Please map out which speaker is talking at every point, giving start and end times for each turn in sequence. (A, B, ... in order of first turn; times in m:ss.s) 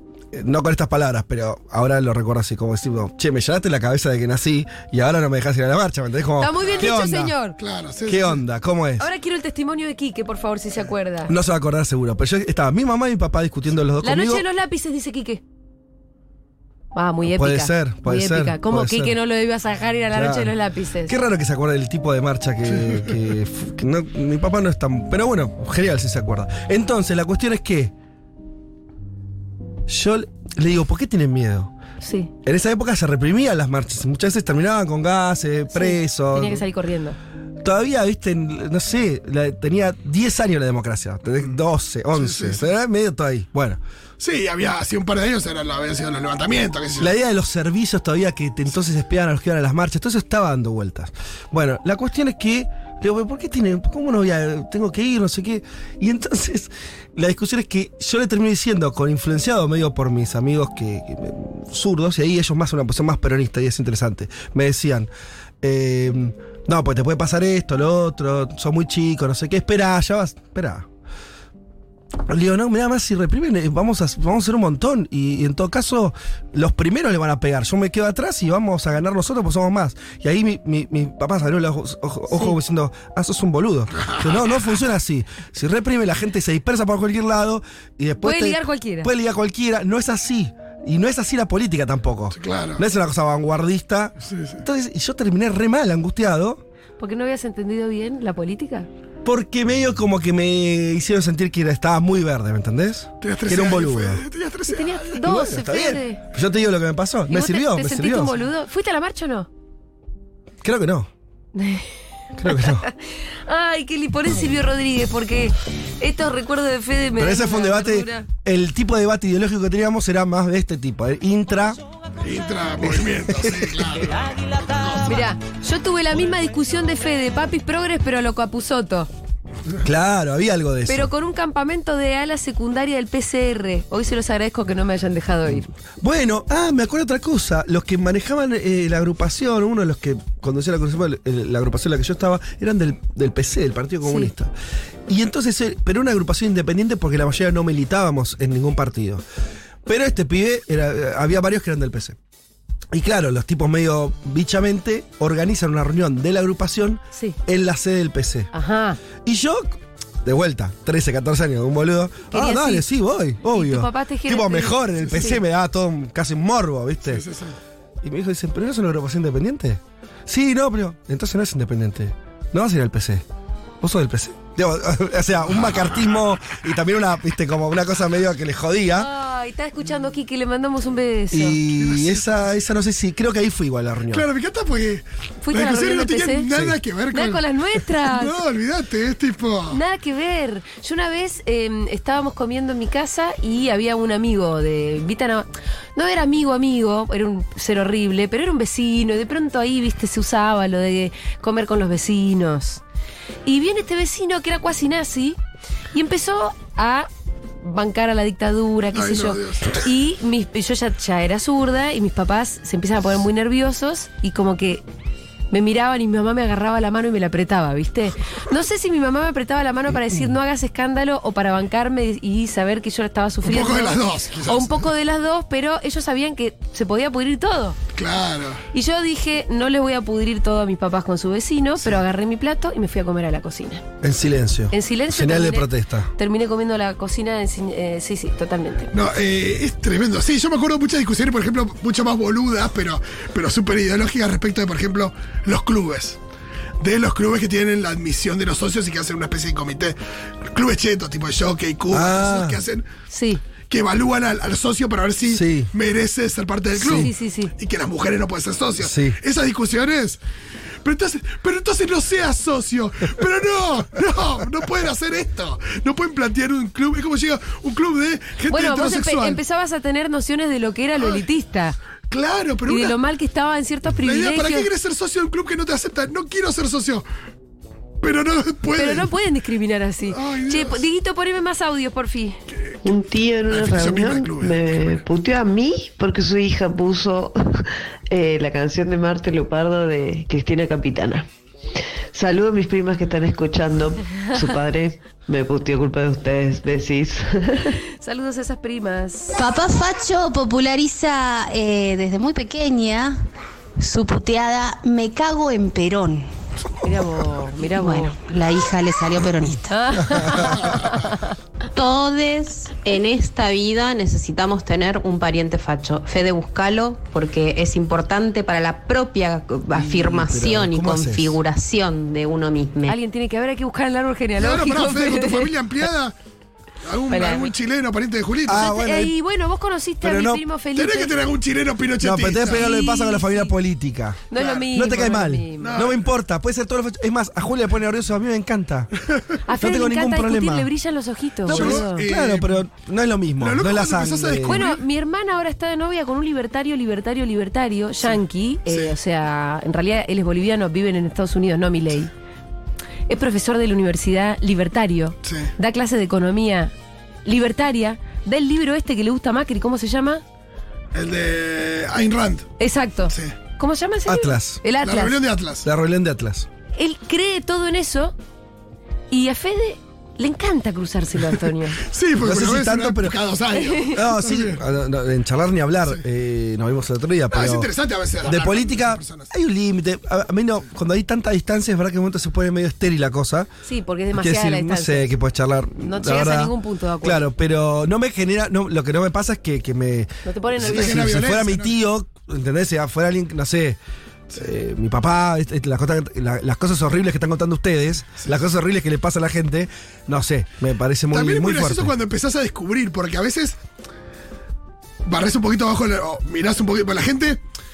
0:00.3-0:07.3 A
0:06.4-0:07.6 B
0:06.6-0:06.9 C
0:07.6-0:08.4 C
0:08.0-0:09.0 A
0:09.0-0:11.3 B
0:11.3-0:14.4 A
0:14.0-0:15.4 B
0:16.9-0:21.2 B
0:17.2-0:19.2 A
0:20.1-0:27.9 A
0:29.9-0:31.7 A
0:32.0-0:32.3 B
0:32.4-0:36.6 A
0:35.7-0:37.2 B
0:37.6-0:43.8 A
0:42.2-0:42.6 C
0:44.2-0:47.1 C
0:47.0-1:05.1 A
1:05.6-1:10.8 A
1:12.3-1:36.6 A
1:28.2-1:29.1 B
1:32.4-1:32.8 C
1:34.3-1:34.6 C
1:37.0-1:38.9 B
1:39.2-1:44.2 A
1:43.2-1:45.2 C
1:44.7-1:46.2 B
1:45.2-1:48.3 A
1:47.3-1:49.5 B
1:50.6-1:51.1 A
1:51.5-1:51.9 B
1:52.4-1:52.9 A
1:52.5-1:58.3 B
1:57.2-2:01.8 A
2:02.2-2:05.1 C
2:02.8-2:03.7 A
2:05.0-2:09.1 B
2:09.8-2:11.1 A
2:10.9-2:15.7 B
2:16.0-2:24.5 A
2:24.0-2:24.3 B
2:25.1-2:29.2 A
2:29.8-2:32.2 A
2:32.9-2:38.5 A
2:38.5-2:39.0 B
2:39.2-2:47.2 A
2:42.3-2:42.9 B
2:43.5-2:45.4 B
2:45.0-2:45.3 C
2:47.1-2:47.6 C
2:48.0-2:53.2 A
2:53.8-2:59.1 A
2:59.0-3:01.6 B
3:01.3-3:04.3 A
3:01.7-3:02.3 C
3:04.1-3:07.4 C
3:05.4-3:06.5 B
3:07.1-3:08.4 B
3:08.0-3:09.8 C
3:09.7-3:22.8 B
3:23.4-3:25.4 B
3:25.9-3:27.1 B
3:27.6-3:34.8 B
3:28.9-3:29.8 C
3:35.5-3:47.8 B
3:43.4-3:44.9 C
3:47.9-3:48.6 C
3:48.7-3:53.8 B
3:54.0-3:56.1 A
3:54.7-3:58.9 B
3:58.9-4:06.2 C
4:06.8-4:12.9 C
4:11.9-4:12.6 A
4:13.1-4:13.4 B
4:13.7-4:20.2 C
4:15.3-4:15.7 A
4:16.8-4:17.1 A
4:16.8-4:17.5 B
4:18.8-4:19.2 A
4:20.8-4:29.4 C
4:28.5-4:31.8 B
4:32.1-4:32.9 C
4:32.7-4:34.7 B
4:34.0-4:37.0 C
4:38.0-4:39.1 C
4:38.7-4:42.4 B
4:40.1-4:40.8 C
4:42.8-4:51.3 D
4:43.5-4:44.8 C
4:52.1-4:57.8 D
4:58.0-4:59.4 B
4:59.3-5:03.2 E
5:03.8-5:06.3 E
5:06.8-5:08.2 B
5:07.6-5:10.4 E
5:09.7-5:11.3 B
5:11.7-5:12.9 E
5:12.8-5:22.9 F
5:19.7-5:21.4 A
5:19.8-5:21.4 E
5:22.8-5:25.5 B
5:24.4-5:26.1 C
5:26.8-5:28.6 C
5:27.1-5:27.5 B
5:28.5-5:29.1 A
5:28.5-5:31.1 B
5:30.0-5:30.4 A
5:30.7-5:32.6 C
5:32.0-5:38.9 A
5:32.5-5:33.5 B
5:34.3-5:35.7 B
5:34.4-5:34.7 C
5:35.6-5:36.0 C
5:39.4-5:42.0 B
5:39.5-5:40.7 A
5:41.5-5:42.6 C
5:41.5-5:44.6 A
5:43.4-5:44.8 C
5:44.4-5:52.1 B
5:48.7-5:48.9 C
5:53.1-5:56.7 B
5:55.2-5:55.5 C
5:57.2-6:00.2 B
6:00.9-6:02.5 C
6:02.6-6:05.2 B
6:04.0-6:04.6 A
6:04.8-6:05.7 C
6:05.6-6:06.5 A
6:06.8-6:08.1 B
6:09.1-6:11.8 B
6:11.8-6:14.6 C
6:12.2-6:13.2 A
6:13.9-6:17.7 A
6:17.3-6:19.3 C
6:18.2-6:23.5 A
6:23.6-6:25.1 B
6:24.1-6:33.8 A
6:25.8-6:27.2 B
6:30.2-6:31.1 B
6:30.6-6:31.7 C
6:34.3-6:41.9 A
6:41.1-6:43.6 C
6:45.0-6:47.4 C